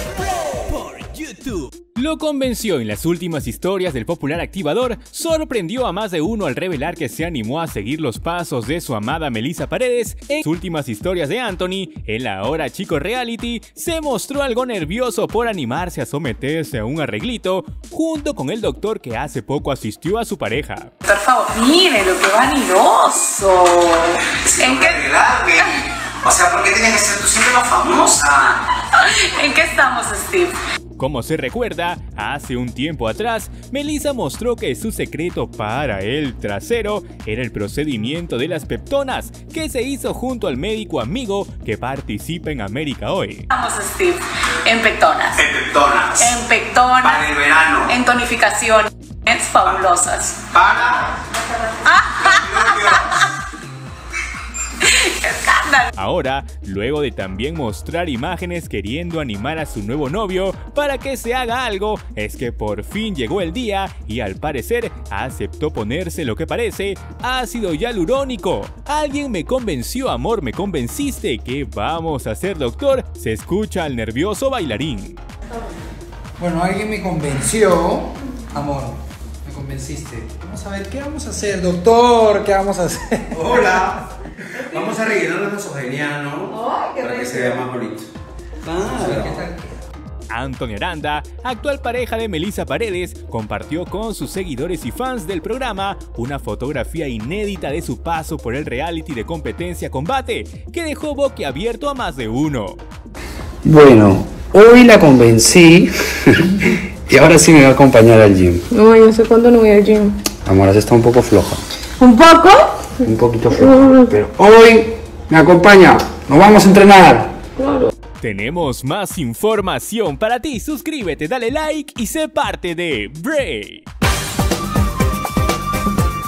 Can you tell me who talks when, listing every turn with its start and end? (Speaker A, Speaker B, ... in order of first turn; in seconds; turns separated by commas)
Speaker A: 0.5-20.9, Speaker B: 21.0-25.1, Speaker C: 24.2-28.6, Speaker B: 28.9-30.6, Speaker A: 31.0-43.5, Speaker B: 43.5-45.4, Speaker C: 45.4-46.4, Speaker B: 46.2-47.3, Speaker C: 47.0-48.0, Speaker B: 47.8-50.4, Speaker C: 49.6-49.9, Speaker C: 50.5-51.2, Speaker B: 51.8-53.3, Speaker C: 52.2-53.2, Speaker B: 54.8-55.9, Speaker A: 56.0-75.2, Speaker D: 76.4-83.5, Speaker C: 83.3-84.0, Speaker C: 84.5-88.1, Speaker C: 88.7-89.5, Speaker D: 88.8-89.7, Speaker A: 90.3-102.8, Speaker E: 103.6-108.7, Speaker F: 108.7-110.2, Speaker E: 110.4-111.6, Speaker F: 112.0-113.0, Speaker E: 113.0-117.4, Speaker F: 113.6-114.1, Speaker F: 117.6-117.9, Speaker A: 118.2-123.9